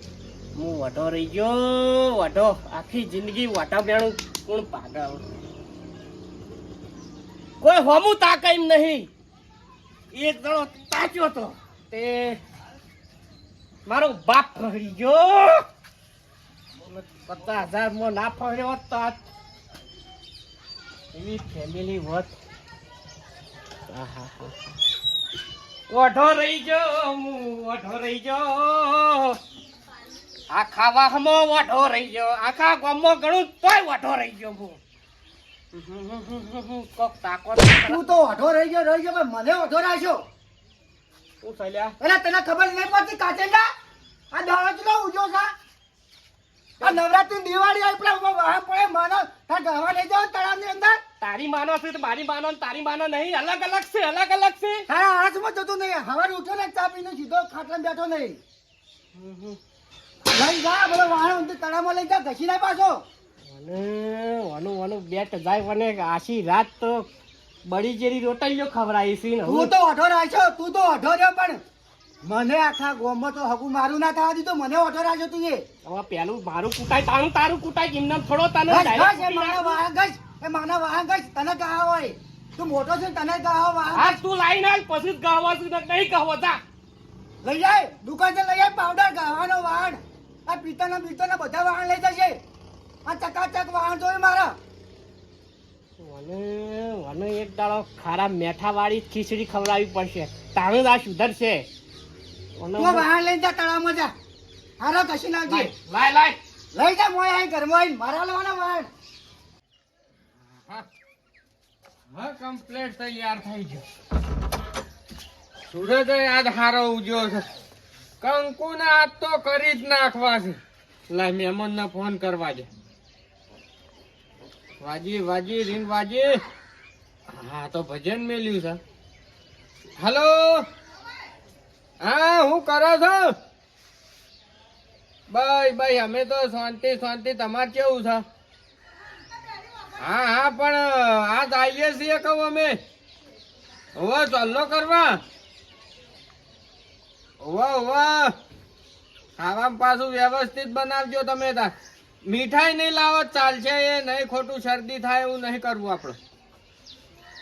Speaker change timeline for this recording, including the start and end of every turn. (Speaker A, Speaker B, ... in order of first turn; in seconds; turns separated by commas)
Speaker A: 0.6-5.2, Speaker A: 7.6-9.1, Speaker A: 10.1-12.4, Speaker A: 13.9-15.6, Speaker A: 16.8-19.2, Speaker A: 21.1-22.3, Speaker A: 23.9-24.5, Speaker A: 25.9-29.4, Speaker A: 30.5-34.8, Speaker A: 35.7-38.0, Speaker B: 37.6-40.2, Speaker A: 41.4-41.9, Speaker B: 42.0-43.7, Speaker B: 44.3-45.5, Speaker B: 46.8-51.0, Speaker A: 51.2-54.9, Speaker B: 54.9-58.4, Speaker A: 59.1-59.6, Speaker B: 60.3-63.0, Speaker A: 63.5-67.1, Speaker A: 67.6-69.7, Speaker B: 69.4-71.6, Speaker B: 72.2-75.6, Speaker A: 75.8-79.8, Speaker B: 78.7-84.2, Speaker A: 83.9-86.6, Speaker B: 87.4-92.4, Speaker B: 93.0-94.6, Speaker A: 96.0-101.7, Speaker A: 102.6-103.0, Speaker B: 102.8-104.1, Speaker B: 104.8-105.7, Speaker A: 105.5-106.4, Speaker B: 106.7-108.9, Speaker C: 112.1-113.8, Speaker C: 115.7-117.4, Speaker C: 118.2-120.6, Speaker C: 121.1-122.7, Speaker C: 124.8-126.4, Speaker C: 127.3-128.8, Speaker C: 130.0-130.7, Speaker C: 132.0-133.3, Speaker C: 135.3-138.2, Speaker C: 140.0-142.8, Speaker C: 143.9-145.2, Speaker C: 147.4-148.3, Speaker C: 149.4-151.7, Speaker C: 152.3-156.2